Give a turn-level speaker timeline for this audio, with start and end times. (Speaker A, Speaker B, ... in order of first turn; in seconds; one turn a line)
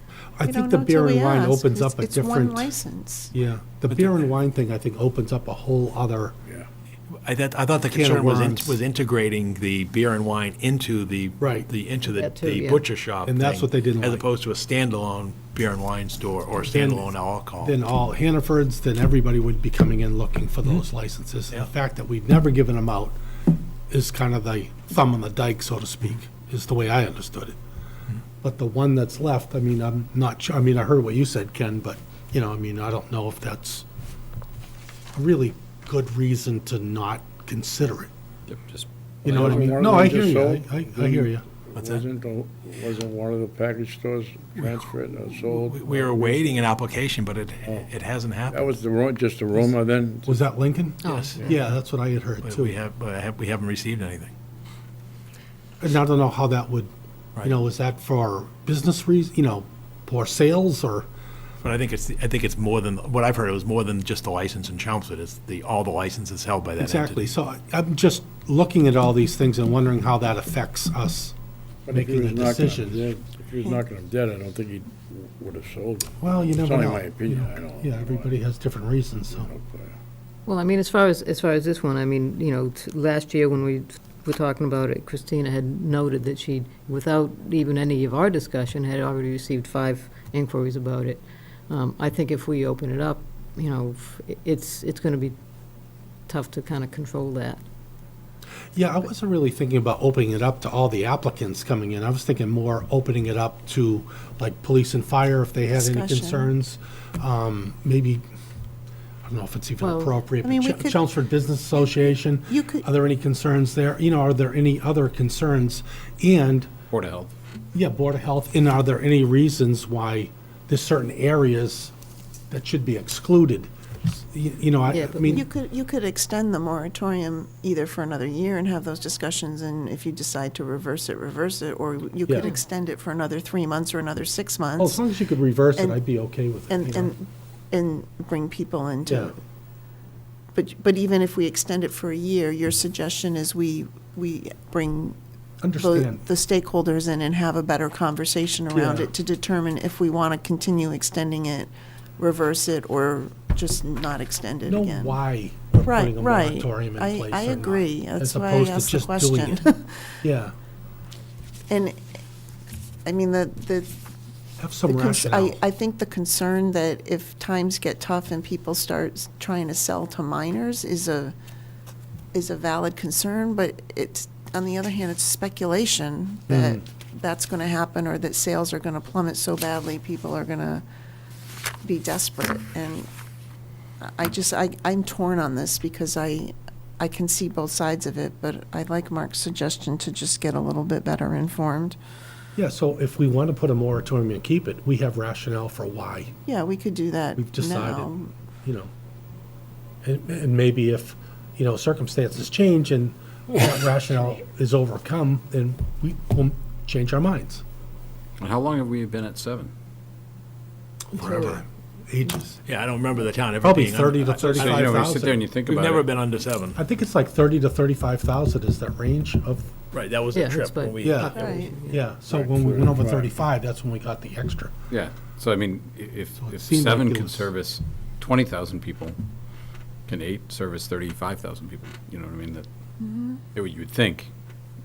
Speaker A: 0.4-2.7
Speaker B: 0.4-3.3
Speaker A: 3.3-6.3
Speaker C: 3.9-4.2
Speaker C: 7.1-17.7
Speaker A: 7.9-8.8
Speaker A: 11.4-11.7
Speaker D: 12.1-12.8
Speaker A: 13.2-14.2
Speaker A: 16.7-23.2
Speaker A: 23.9-27.6
Speaker A: 28.4-33.8
Speaker A: 35.1-38.1
Speaker E: 38.5-39.8
Speaker A: 39.2-41.4
Speaker F: 39.2-46.7
Speaker C: 41.7-42.0
Speaker C: 45.4-48.7
Speaker F: 48.5-50.5
Speaker A: 50.3-52.7
Speaker D: 51.0-51.4
Speaker C: 51.0-51.7
Speaker C: 52.4-54.3
Speaker A: 55.8-56.9
Speaker A: 57.4-61.1
Speaker C: 61.6-67.3
Speaker A: 66.8-71.3
Speaker F: 71.8-78.3
Speaker A: 71.9-73.0
Speaker A: 76.2-79.5
Speaker F: 79.3-79.9
Speaker D: 80.5-95.3
Speaker D: 96.3-97.6
Speaker A: 98.7-108.2
Speaker B: 105.7-106.5
Speaker A: 109.2-116.7
Speaker D: 109.8-110.2
Speaker B: 110.4-111.1
Speaker B: 112.5-112.8
Speaker E: 116.9-117.3
Speaker A: 117.7-121.9
Speaker A: 122.5-125.5
Speaker D: 124.9-125.4
Speaker B: 125.3-135.0
Speaker A: 132.2-132.5
Speaker A: 134.8-137.1
Speaker B: 135.7-136.0
Speaker B: 136.7-139.4
Speaker A: 139.1-139.3
Speaker B: 140.5-145.2
Speaker A: 145.6-146.3
Speaker B: 145.8-155.2
Speaker A: 148.7-149.1
Speaker A: 154.7-159.6
Speaker B: 155.8-160.1
Speaker A: 160.2-160.5
Speaker B: 161.7-162.0
Speaker B: 163.1-163.9
Speaker A: 164.6-165.6
Speaker B: 164.8-171.3
Speaker B: 172.3-180.8
Speaker A: 176.5-176.8
Speaker B: 181.8-183.1
Speaker B: 184.0-192.0
Speaker A: 192.6-196.3
Speaker B: 196.4-198.3
Speaker A: 197.4-198.9
Speaker A: 200.0-207.6
Speaker E: 208.4-209.7
Speaker A: 211.1-212.6
Speaker C: 212.6-216.8
Speaker A: 213.6-215.4
Speaker E: 214.4-216.1
Speaker A: 216.7-219.7
Speaker C: 219.9-221.5
Speaker D: 220.3-222.0
Speaker A: 221.0-224.7
Speaker B: 221.3-221.8
Speaker F: 222.3-223.4
Speaker E: 224.9-229.2
Speaker A: 226.4-227.5
Speaker E: 230.1-232.7
Speaker B: 233.0-233.4
Speaker E: 233.5-234.3